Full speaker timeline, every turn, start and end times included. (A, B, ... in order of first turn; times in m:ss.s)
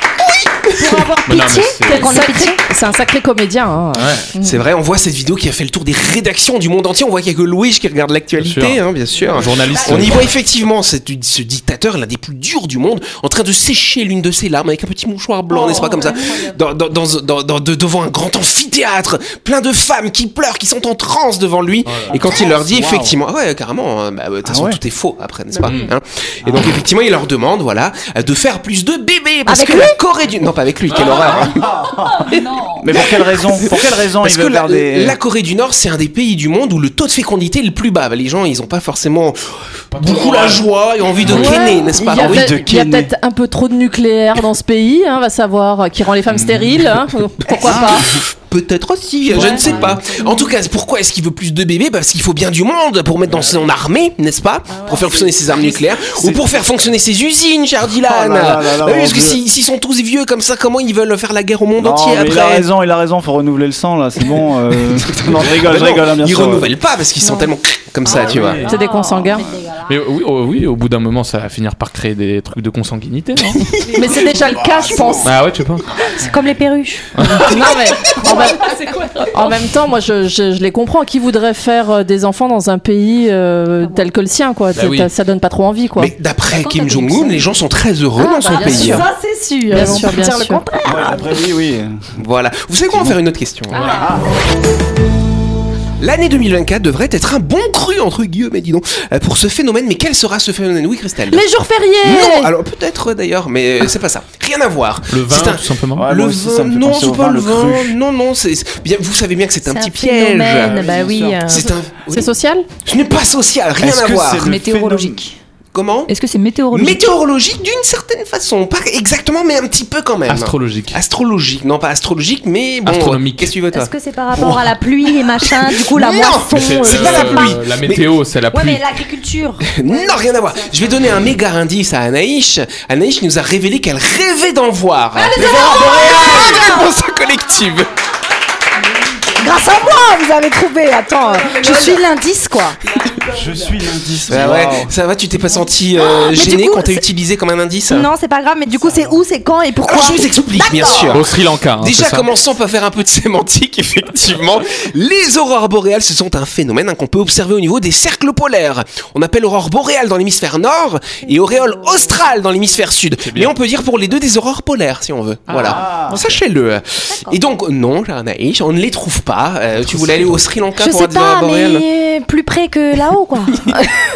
0:00.2-0:01.1 A
0:00.7-0:02.6 B
0:01.2-0:02.3 C
0:01.9-0:04.6 D
0:04.0-0:04.3 C
0:04.4-0:31.7 A
0:08.4-0:08.8 C
0:09.4-0:10.3 C
0:15.6-0:16.5 B
0:21.9-0:22.2 C
0:22.1-0:23.2 E
0:24.4-0:24.8 E
0:25.6-0:25.9 C
0:26.5-0:26.8 E
0:29.5-0:30.0 B
0:30.9-0:31.4 C
0:31.6-0:32.3 E
0:32.3-0:39.4 A
0:32.3-0:32.8 F
0:32.8-0:35.2 E
0:39.9-0:40.7 C
0:39.9-0:42.5 A
0:41.2-0:41.6 C
0:41.3-0:48.1 D
0:42.0-0:43.1 E
0:46.3-0:46.7 C
0:47.5-1:02.7 A
0:47.6-0:48.0 E
0:49.3-0:50.0 C
0:56.0-0:56.5 E
0:58.0-0:59.4 E
1:01.8-1:06.7 E
1:05.3-1:08.6 A
1:07.2-1:07.5 B
1:08.0-1:08.8 C
1:08.6-1:09.9 B
1:08.6-1:09.5 D
1:09.9-1:13.7 C
1:13.9-1:15.3 D
1:14.5-1:15.3 E
1:15.2-1:15.9 C
1:16.2-1:17.5 B
1:17.2-1:17.5 C
1:17.4-1:18.7 D
1:18.2-1:19.3 B
1:19.3-1:26.1 D
1:24.8-1:25.1 C
1:26.0-1:29.0 A
1:26.5-1:27.5 F
1:28.2-1:31.5 B
1:28.5-1:29.0 D
1:29.7-1:30.6 D
1:30.8-1:32.2 E
1:32.2-1:34.0 A
1:32.9-1:33.2 E
1:33.7-1:34.2 B
1:33.9-1:34.2 E
1:36.0-1:41.5 A
1:41.3-1:42.5 D
1:42.0-1:50.8 A
1:45.1-1:46.1 C
1:46.0-1:48.0 E
1:49.6-1:51.7 B
1:50.6-1:51.6 E
1:51.5-1:52.3 A
1:52.1-1:52.7 D
1:52.8-1:54.5 A
1:53.8-1:55.3 E
1:54.4-1:55.4 F
1:55.7-1:56.1 A
1:56.1-1:57.2 F
1:56.7-2:04.6 A
2:00.3-2:01.0 C
2:02.9-2:03.6 C
2:03.7-2:07.6 B
2:05.2-2:08.1 A
2:06.5-2:08.8 C
2:08.5-2:11.0 B
2:09.6-2:17.9 A
2:15.2-2:17.0 B
2:15.4-2:16.4 E
2:19.3-2:22.8 B
2:23.3-2:24.9 E
2:24.3-2:28.1 A
2:26.1-2:27.1 B
2:27.9-2:31.2 B
2:29.8-2:51.9 A
2:31.1-2:32.3 C
2:43.2-2:43.5 C
2:45.5-2:45.8 C
2:45.6-2:46.4 E
2:49.8-2:50.4 C
2:50.8-2:53.7 B